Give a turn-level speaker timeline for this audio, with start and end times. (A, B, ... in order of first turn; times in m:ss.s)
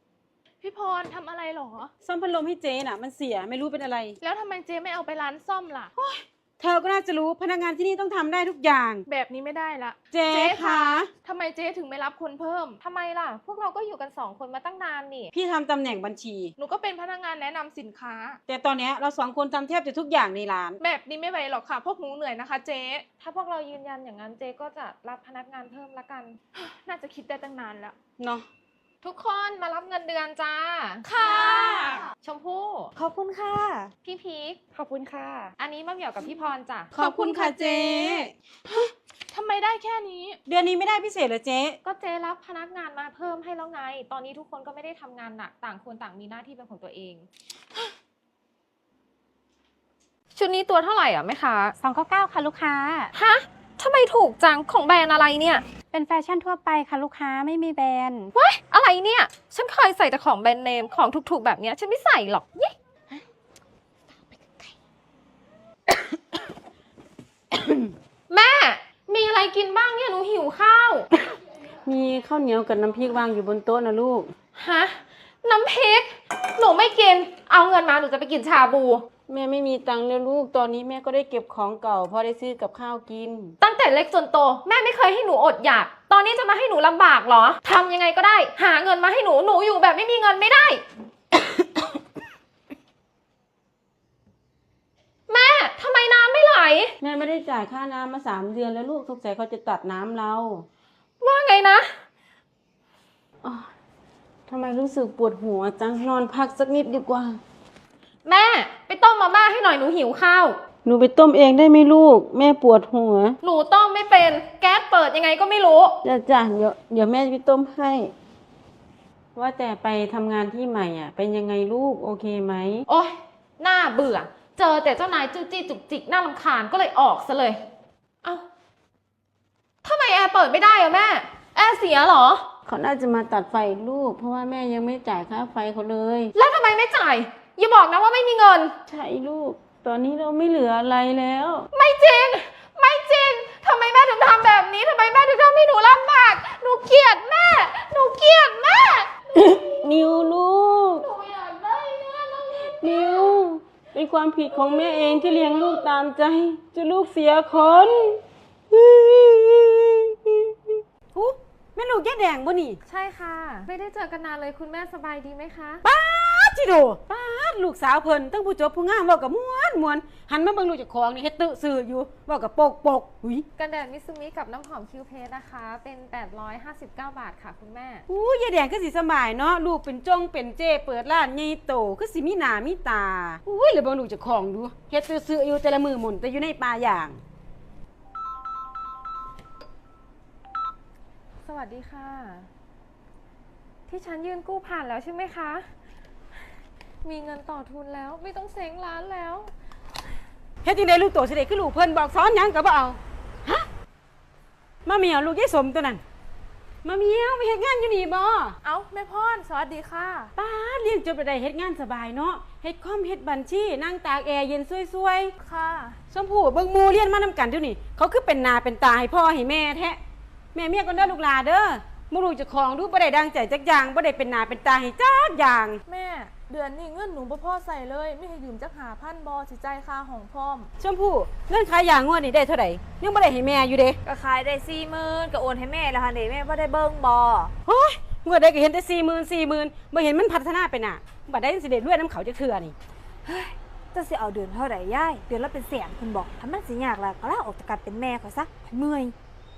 0:00.6-0:01.9 A
0:02.0-0:04.2 B
0:04.2-0:05.9 A
0:06.0-0:09.0 B
0:09.1-0:12.8 A
0:10.1-0:11.1 B
0:12.8-0:15.3 C
0:15.3-0:16.5 B
0:16.6-0:18.4 A
0:18.5-0:20.8 B
0:20.8-0:23.1 A
0:23.2-0:26.4 C
0:26.6-0:28.0 A
0:28.2-0:28.5 B
0:29.0-0:31.3 C
0:32.2-0:32.9 C
0:33.1-0:33.9 D
0:34.0-0:34.6 C
0:35.6-0:36.9 C
0:36.9-0:38.3 B
0:37.0-0:37.7 A
0:39.3-0:40.4 A
0:40.5-0:41.8 B
0:41.8-0:47.3 C
0:50.3-0:51.7 C
0:51.8-0:53.1 E
0:53.1-0:55.6 C
0:55.9-0:58.3 E
0:58.4-1:02.7 C
1:08.3-1:11.1 C
1:11.8-1:14.3 B
1:14.6-1:19.0 C
1:19.3-1:23.5 B
1:23.6-1:30.8 C
1:35.3-1:36.9 C
1:37.0-1:40.7 B
1:41.2-1:41.9 C
1:44.5-1:47.4 B
1:48.2-1:50.6 C
1:50.8-1:53.4 B
1:53.4-1:56.0 C
1:56.0-1:58.1 B
1:59.4-2:02.8 B
2:02.9-2:07.6 C
2:09.8-2:12.5 C
2:12.7-2:16.3 B
2:16.3-2:18.7 C
2:18.9-2:21.7 B
2:21.7-2:29.1 C
2:29.4-2:31.1 B
2:31.0-2:33.3 C
2:32.6-2:38.2 B
2:38.7-2:42.8 B
2:42.9-2:45.8 C
2:45.8-2:53.5 B
2:53.6-2:58.0 C
2:58.1-3:07.2 B
3:11.4-3:12.5 C
3:13.9-3:15.7 C
3:17.0-3:19.5 C
3:20.6-3:23.7 B
3:24.9-3:26.0 B
3:26.8-3:28.6 B
3:28.6-3:30.3 A
3:30.4-3:35.3 B
3:35.4-3:36.0 A
3:36.1-3:40.0 B
3:40.6-3:45.8 B
3:45.9-3:50.7 A
3:50.8-3:54.0 B
3:54.1-3:57.5 D
3:57.7-4:02.7 B
4:03.3-4:09.1 D